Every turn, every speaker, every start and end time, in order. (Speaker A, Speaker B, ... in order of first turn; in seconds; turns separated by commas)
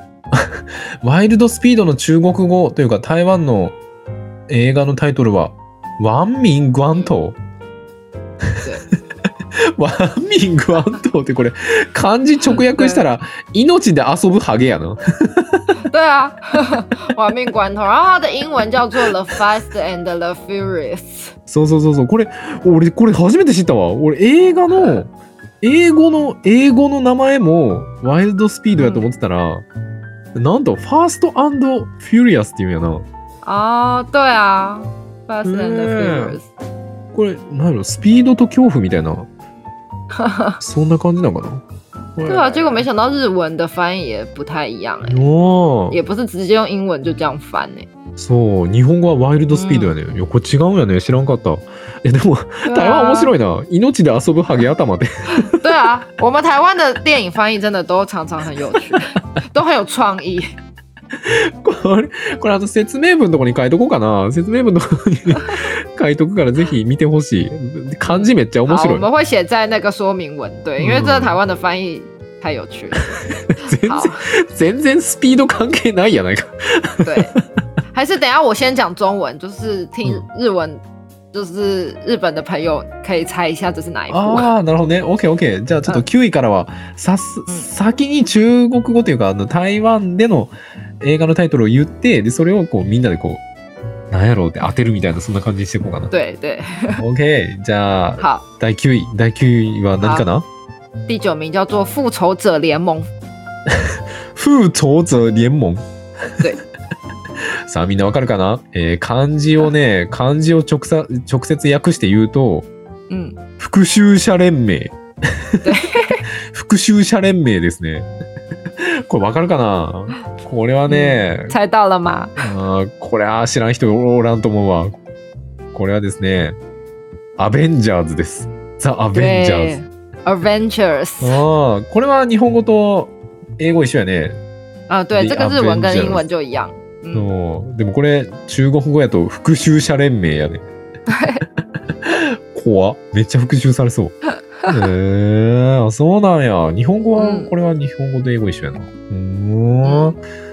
Speaker A: 0.3-3.8, Speaker A: 4.5-7.3, Speaker A: 9.6-15.8, Speaker B: 12.5-13.1, Speaker B: 15.9-21.3, Speaker A: 21.5-25.1, Speaker B: 24.7-25.0, Speaker A: 25.6-29.6, Speaker B: 28.8-29.1, Speaker A: 30.3-33.0, Speaker B: 33.4-36.5, Speaker A: 35.4-36.4, Speaker A: 37.1-39.3, Speaker B: 40.2-40.6, Speaker A: 40.6-41.6, Speaker A: 42.1-42.9, Speaker B: 42.2-45.2, Speaker A: 45.0-46.0, Speaker B: 45.9-47.9, Speaker A: 48.2-55.5, Speaker B: 49.5-49.9, Speaker B: 52.6-53.3, Speaker B: 55.4-60.5, Speaker A: 61.2-69.1, Speaker B: 68.1-73.2, Speaker A: 70.8-71.4, Speaker A: 73.0-77.4, Speaker B: 73.8-74.2, Speaker B: 77.0-77.3, Speaker B: 77.9-84.5, Speaker A: 84.1-93.4, Speaker A: 94.1-96.1, Speaker B: 96.1-97.0, Speaker A: 97.0-100.5, Speaker B: 98.2-98.4, Speaker B: 100.0-100.2, Speaker B: 101.1-103.1, Speaker A: 103.7-105.8, Speaker A: 107.7-112.7, Speaker B: 113.1-113.4, Speaker A: 113.6-115.7, Speaker B: 115.6-116.2, Speaker A: 116.5-118.1, Speaker A: 118.8-121.5, Speaker B: 120.9-122.4, Speaker A: 122.4-125.0, Speaker A: 125.7-126.5, Speaker A: 127.4-129.8, Speaker B: 129.1-131.4, Speaker A: 131.2-134.4, Speaker B: 134.9-137.3, Speaker A: 135.1-136.2, Speaker A: 137.1-140.7, Speaker B: 141.1-141.4, Speaker A: 142.0-150.2, Speaker B: 147.2-147.5, Speaker B: 149.8-150.1